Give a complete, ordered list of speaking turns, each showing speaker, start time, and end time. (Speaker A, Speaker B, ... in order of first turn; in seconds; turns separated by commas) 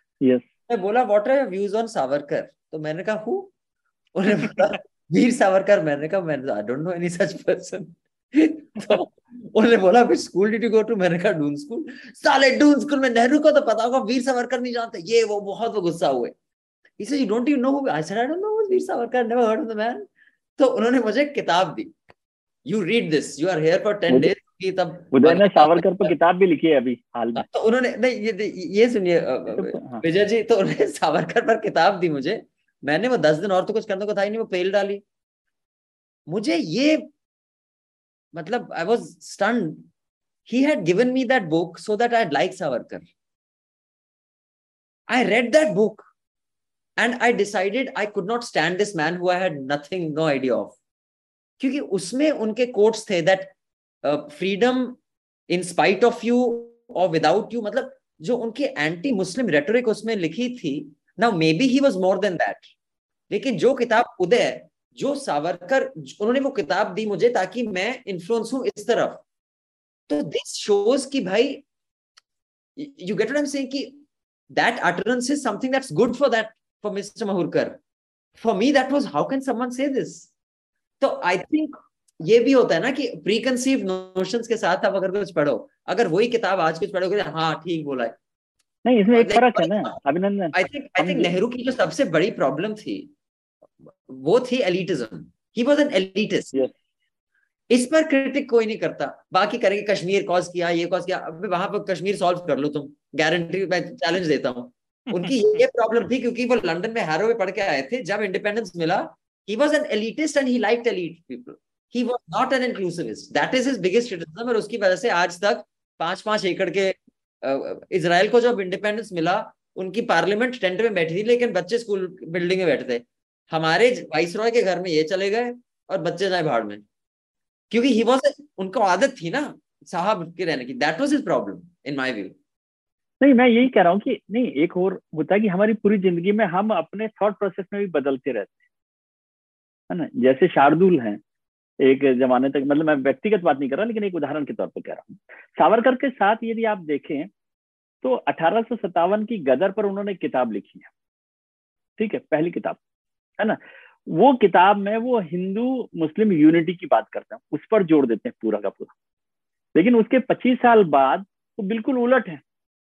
Speaker A: 0.7-3.5, Speaker A: 4.1-16.3, Speaker A: 17.0-21.9, Speaker A: 22.6-26.1, Speaker B: 25.1-27.4, Speaker A: 27.4-35.0, Speaker B: 29.5-30.0, Speaker A: 36.3-37.1, Speaker A: 38.3-39.9, Speaker A: 40.5-43.0, Speaker A: 45.1-46.1, Speaker A: 47.0-50.8, Speaker A: 51.6-55.0, Speaker A: 55.5-62.7, Speaker A: 63.3-69.2, Speaker A: 70.1-71.6, Speaker A: 72.8-77.8, Speaker A: 78.4-80.3, Speaker A: 81.0-88.2, Speaker B: 88.8-91.3, Speaker A: 89.1-90.0, Speaker A: 90.5-93.1, Speaker A: 93.8-96.7, Speaker A: 97.7-126.8, Speaker A: 127.7-132.3, Speaker B: 133.2-138.6, Speaker B: 139.9-141.2, Speaker B: 141.8-147.3, Speaker B: 148.0-150.9, Speaker B: 152.0-152.8, Speaker B: 153.4-158.9, Speaker B: 159.7-162.4